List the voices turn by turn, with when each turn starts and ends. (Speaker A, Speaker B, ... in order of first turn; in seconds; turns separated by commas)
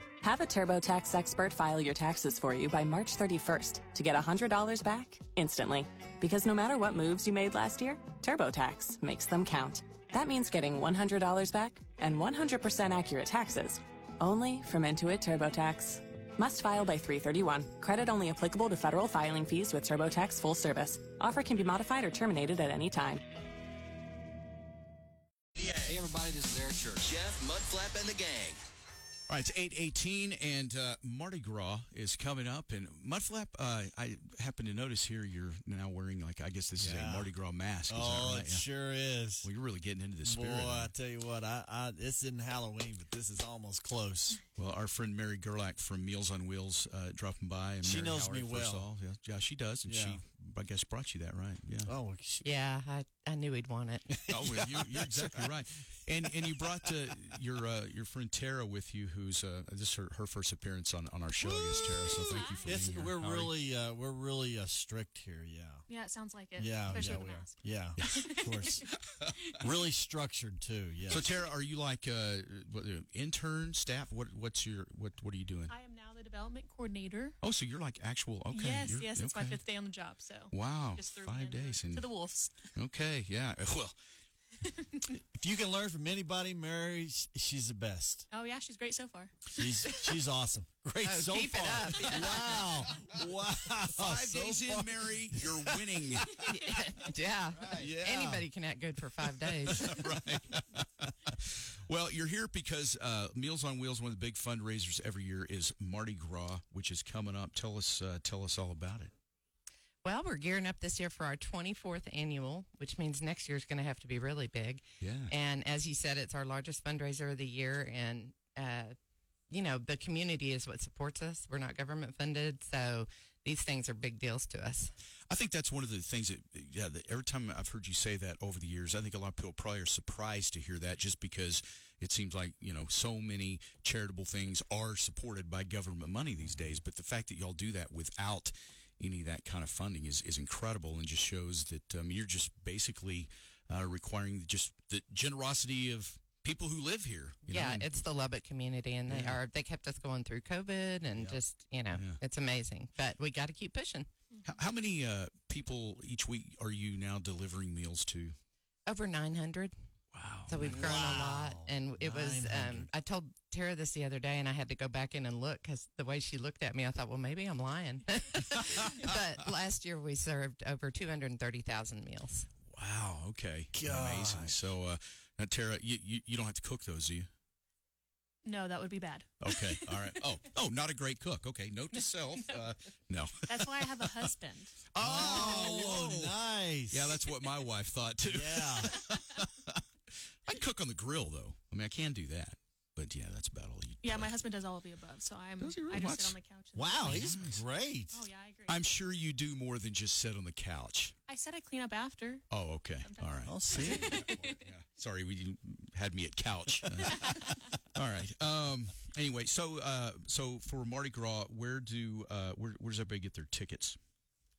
Speaker A: 0.2-23.2, Speaker B: 25.6-28.6, Speaker C: 29.3-38.7, Speaker D: 36.8-37.3, Speaker D: 37.9-39.5, Speaker C: 39.4-40.9, Speaker D: 40.2-44.4, Speaker C: 44.5-51.9, Speaker D: 47.8-48.9, Speaker D: 49.9-50.2, Speaker D: 51.9-52.5, Speaker E: 52.4-54.1, Speaker D: 54.1-55.5, Speaker C: 54.3-63.5, Speaker D: 62.1-65.8, Speaker E: 62.1-62.5, Speaker F: 65.9-68.9, Speaker D: 66.6-68.9, Speaker C: 68.0-68.3, Speaker D: 69.6-71.3, Speaker C: 71.1-75.7, Speaker F: 75.7-77.4, Speaker C: 77.4-79.6, Speaker F: 78.5-82.7, Speaker C: 80.5-82.1, Speaker C: 82.7-84.0, Speaker D: 85.3-88.3, Speaker F: 88.3-89.6, Speaker D: 89.5-95.8, Speaker E: 91.0-92.6, Speaker C: 93.9-96.5, Speaker E: 96.4-100.0, Speaker D: 97.8-98.5, Speaker C: 99.7-109.1, Speaker E: 110.0-119.0, Speaker C: 115.0-115.3, Speaker E: 119.5-124.9, Speaker C: 125.3-147.9, Speaker E: 147.5-154.1, Speaker C: 149.1-149.4, Speaker C: 151.9-152.2, Speaker C: 154.4-158.3, Speaker E: 158.9-159.7, Speaker C: 160.1-161.0, Speaker E: 160.5-172.5, Speaker D: 160.8-162.9, Speaker C: 172.7-177.3, Speaker D: 173.7-174.6, Speaker F: 178.4-180.1, Speaker C: 179.4-184.2, Speaker F: 183.5-185.6, Speaker C: 184.9-186.4, Speaker D: 185.0-187.2, Speaker C: 186.9-189.8, Speaker D: 188.3-189.0, Speaker C: 190.4-194.3, Speaker F: 194.0-197.4, Speaker C: 195.6-196.4, Speaker D: 196.8-198.2, Speaker C: 197.1-197.6, Speaker F: 198.1-198.8, Speaker C: 198.7-201.1, Speaker F: 201.3-202.4, Speaker C: 202.5-214.0, Speaker F: 203.0-204.6, Speaker D: 203.5-204.3